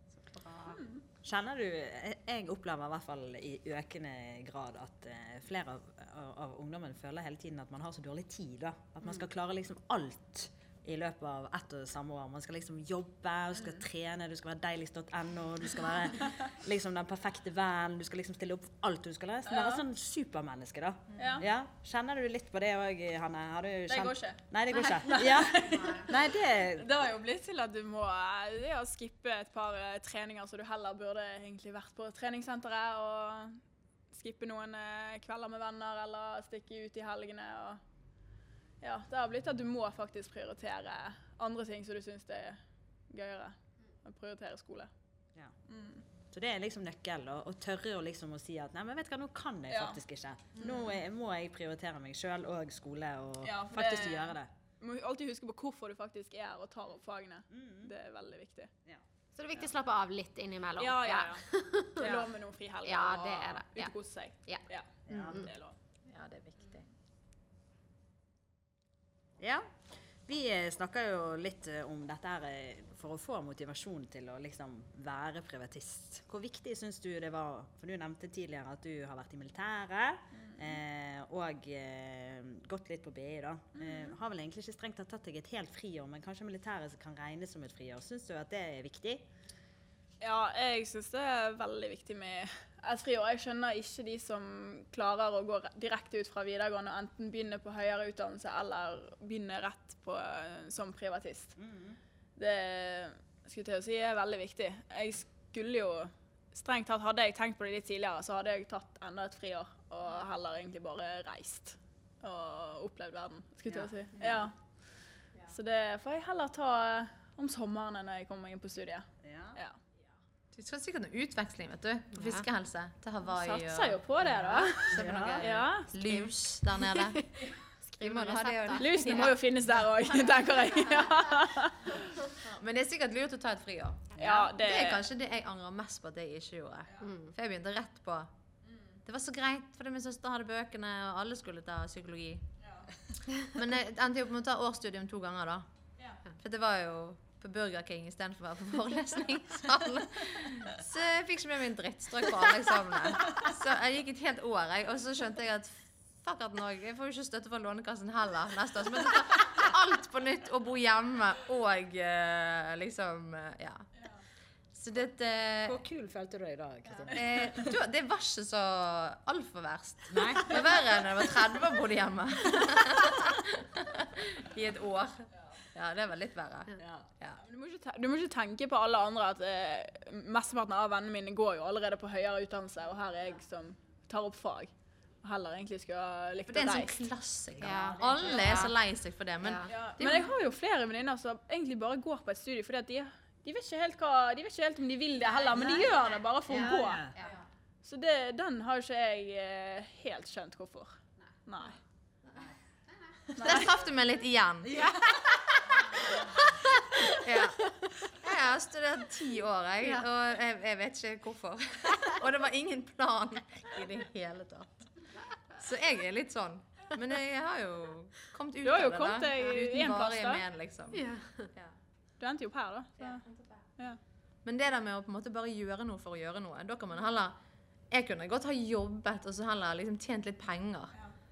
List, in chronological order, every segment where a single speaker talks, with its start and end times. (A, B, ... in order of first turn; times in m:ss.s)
0:00.2-0:00.8 A
0:00.7-0:01.0 B
0:01.2-0:26.9 C
0:19.5-0:19.8 B
0:21.1-0:21.4 D
0:21.2-0:21.4 B
0:23.9-0:26.1 B
0:26.7-0:33.6 B
0:34.1-0:37.8 B
0:38.8-0:44.9 B
0:45.7-0:46.0 B
0:46.3-0:54.5 C
0:49.7-0:50.0 B
0:53.4-0:58.7 B
0:57.5-0:57.9 C
0:59.3-1:02.2 A
1:00.8-1:01.4 B
1:02.0-1:05.7 B
1:02.8-1:03.9 A
1:05.1-1:05.5 C
1:05.2-1:05.4 A
1:06.1-1:06.9 D
1:09.4-1:29.2 C
1:23.7-1:24.1 B
1:30.2-1:41.6 B
1:41.6-1:42.0 C
1:42.4-1:54.7 B
1:55.5-1:59.8 B
1:59.2-1:59.6 C
2:00.5-2:07.2 D
2:02.1-2:02.4 A
2:03.2-2:06.3 B
2:04.9-2:05.4 C
2:04.9-2:05.5 A
2:06.9-2:09.3 A
2:08.0-2:10.4 D
2:08.8-2:12.0 B
2:12.3-2:18.3 D
2:14.2-2:15.0 B
2:17.0-2:17.3 A
2:19.0-2:22.4 D
2:23.4-2:25.6 D
2:26.4-2:43.9 D
2:44.7-2:45.8 D
2:45.6-2:47.8 C
2:47.1-2:57.4 D
2:50.1-2:50.7 C
2:56.8-2:57.1 C
2:57.4-3:04.7 B
3:05.2-3:07.0 B
3:06.5-3:10.3 D
3:07.6-3:08.6 A
3:07.6-3:08.7 C
3:09.4-3:09.7 A
3:09.7-3:17.1 B
3:16.5-3:17.2 C
3:17.2-3:17.4 D
3:17.8-3:21.8 B
3:23.4-3:23.7 B
3:23.4-3:25.2 D
3:25.7-3:26.5 D
3:27.0-3:41.0 D
3:27.1-3:27.9 A
3:38.6-3:40.4 B
3:40.9-3:41.5 A
3:42.2-3:43.2 B
3:43.0-3:43.7 D
3:44.4-3:47.4 D
3:47.9-3:50.9 D